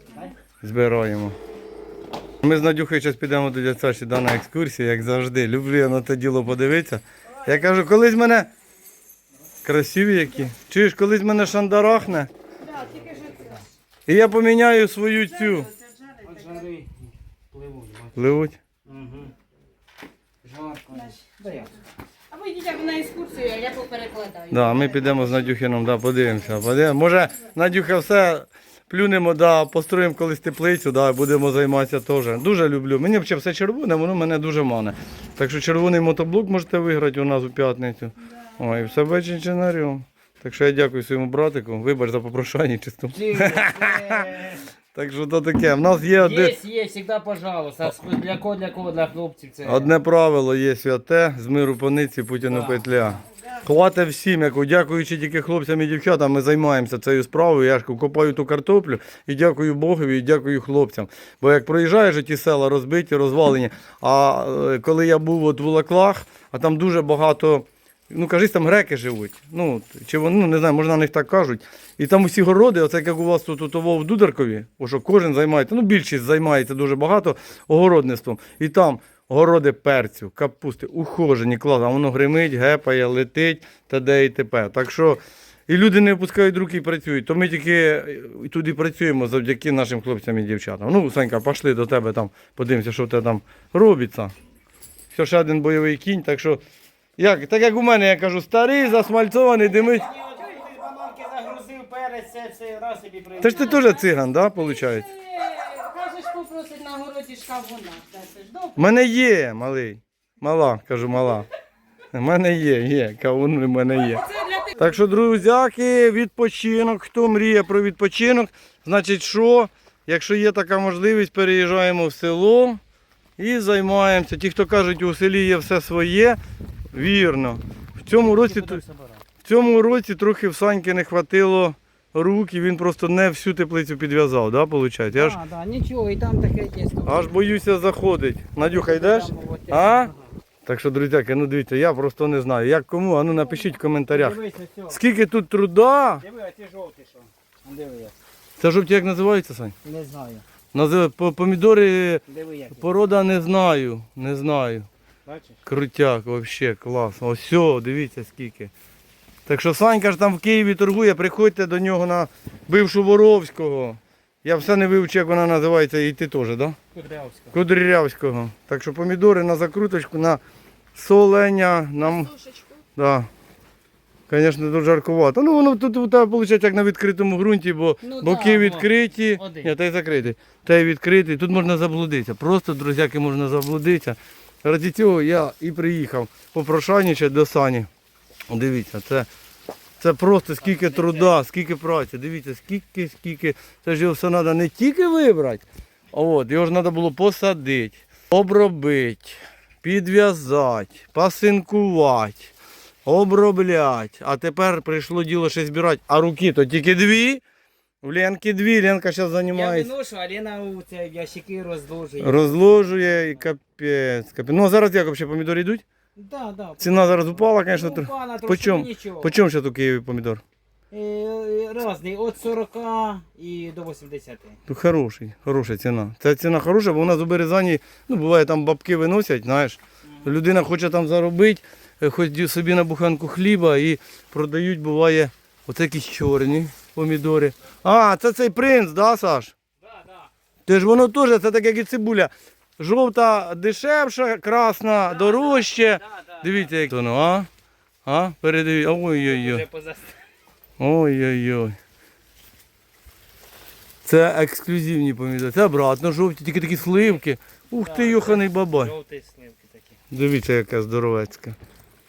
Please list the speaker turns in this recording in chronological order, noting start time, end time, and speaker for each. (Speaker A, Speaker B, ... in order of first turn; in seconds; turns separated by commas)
Speaker A: 0.1-0.3, Speaker B: 0.6-1.4, Speaker B: 2.4-8.5, Speaker B: 9.6-12.3, Speaker C: 12.6-13.6, Speaker A: 12.8-13.6, Speaker B: 14.1-15.7, Speaker C: 15.5-16.4, Speaker A: 16.2-18.2, Speaker B: 18.1-18.6, Speaker A: 18.9-19.3, Speaker A: 20.4-21.7, Speaker C: 22.3-25.2, Speaker B: 24.5-46.6, Speaker A: 43.1-44.7, Speaker A: 46.1-49.9, Speaker B: 49.6-94.3, Speaker A: 52.4-53.1, Speaker B: 95.1-96.6, Speaker B: 97.2-100.0, Speaker A: 99.6-103.9, Speaker B: 103.4-105.1, Speaker C: 103.8-108.8, Speaker B: 108.8-111.5, Speaker B: 112.1-122.8, Speaker C: 114.3-114.8, Speaker B: 123.4-126.4, Speaker B: 126.9-128.8, Speaker A: 128.2-129.2, Speaker B: 129.4-135.4, Speaker A: 135.1-137.4, Speaker B: 137.0-140.1, Speaker A: 138.6-140.3, Speaker B: 140.6-144.4, Speaker A: 143.3-145.0, Speaker B: 144.9-146.2, Speaker A: 146.2-148.1, Speaker B: 148.6-149.7, Speaker A: 149.8-150.4, Speaker B: 150.7-152.2, Speaker A: 152.3-152.9, Speaker B: 152.8-154.9, Speaker A: 155.2-155.6, Speaker B: 155.7-158.7, Speaker B: 159.4-166.8, Speaker A: 166.9-167.6, Speaker B: 167.5-170.4, Speaker B: 170.9-172.4, Speaker B: 172.9-173.3, Speaker B: 174.3-187.9, Speaker A: 178.0-179.7, Speaker B: 188.5-189.3, Speaker B: 190.0-202.5, Speaker A: 190.6-191.4, Speaker B: 203.1-207.4, Speaker B: 208.0-209.9, Speaker A: 209.5-213.4, Speaker B: 212.2-215.8, Speaker A: 216.2-219.3, Speaker B: 216.8-220.4, Speaker A: 220.9-224.6, Speaker B: 224.7-239.5, Speaker A: 239.8-240.3, Speaker B: 240.7-247.5, Speaker A: 245.0-246.8, Speaker B: 248.0-249.6, Speaker A: 249.1-250.2, Speaker B: 250.8-251.8, Speaker B: 254.0-258.9, Speaker A: 257.8-260.0, Speaker B: 260.1-261.6